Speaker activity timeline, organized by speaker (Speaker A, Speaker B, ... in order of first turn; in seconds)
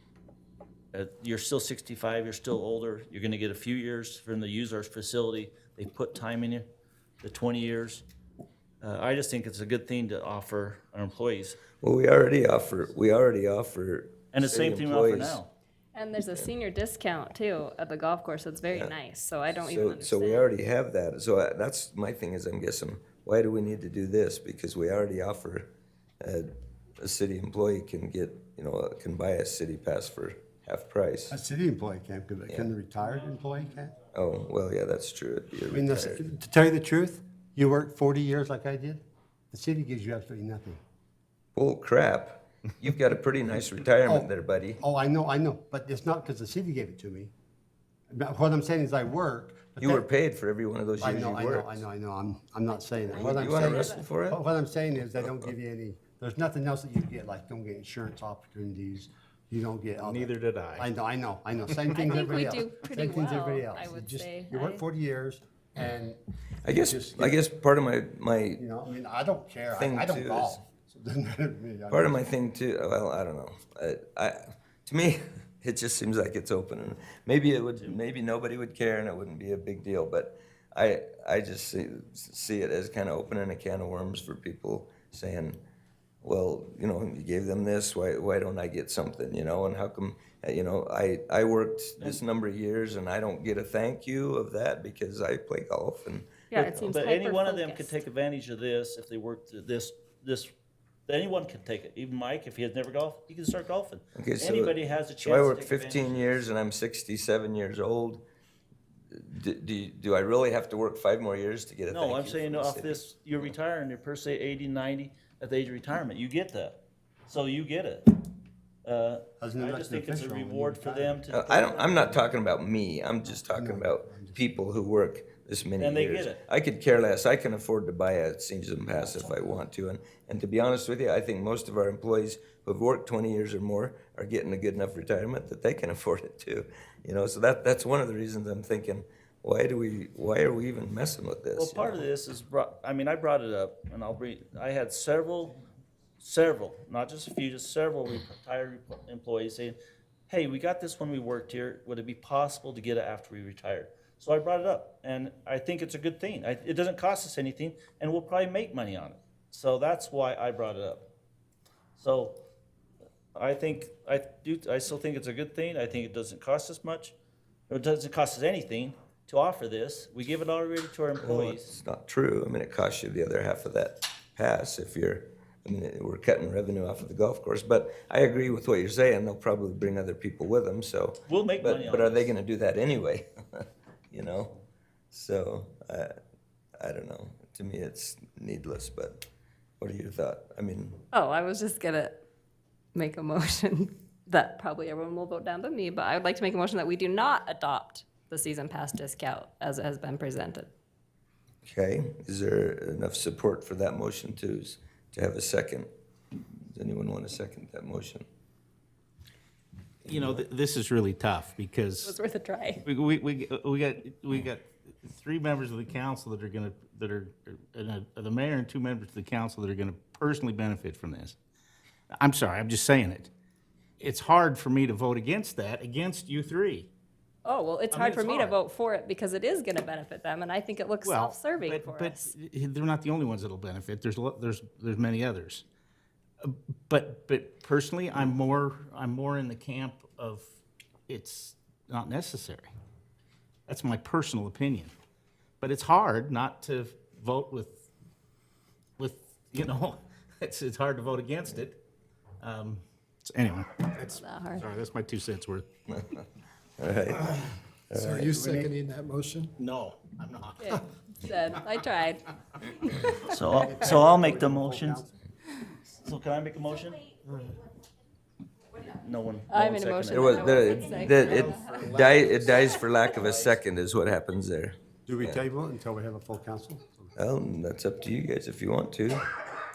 Speaker A: 0.9-6.7, 7.2-8.0, 8.8-11.6, 14.3-15.5, 96.5-100.5, 101.1-106.4, 111.9-118.1, 118.8-122.2, 125.8-126.4, 141.6-145.6, 146.2-149.8, 150.3-161.1, 162.0-162.4, 163.3-167.2, 167.7-171.8, 181.2-182.3, 263.2-265.1, 265.9-267.1, 268.8-270.3
Speaker B: 11.8-15.4, 19.6-26.5, 27.0-31.3, 34.1-36.3, 41.5-44.8, 49.8-51.8, 53.1-54.4, 66.6-68.6, 69.7-70.6, 71.9-85.6, 86.2-96.4, 104.2-108.2, 109.1-113.0, 121.3-142.1, 171.2-184.6, 185.1-186.1, 186.8-189.2, 189.8-191.0, 201.7-205.9, 206.7-208.2, 255.9-256.2, 256.8-258.4, 270.1-275.4, 277.1-279.4
Speaker C: 15.9-20.5, 53.1-54.0, 61.9-64.8, 96.5-97.9, 191.1-192.2, 192.9-200.7, 212.0-212.8, 227.4-232.3, 254.0-254.7, 260.6-263.9, 269.5-273.3
Speaker D: 31.3-34.0, 35.7-40.8, 44.0-47.3, 48.1-50.0, 51.0-66.2, 66.8-67.4, 68.6-72.3, 119.4-121.2, 123.5-124.4, 258.2-258.7, 263.6-265.1, 275.1-277.1
Speaker E: 60.0-60.9, 210.0-212.2, 212.8-221.4, 222.1-223.3, 224.0-226.9, 227.9-228.6, 231.0-235.6, 236.4-240.5, 241.1-242.7, 243.7-244.9, 245.6-247.9, 249.0-251.8, 252.4-255.6, 259.6-260.8
Speaker F: 257.9-259.5, 271.5-271.8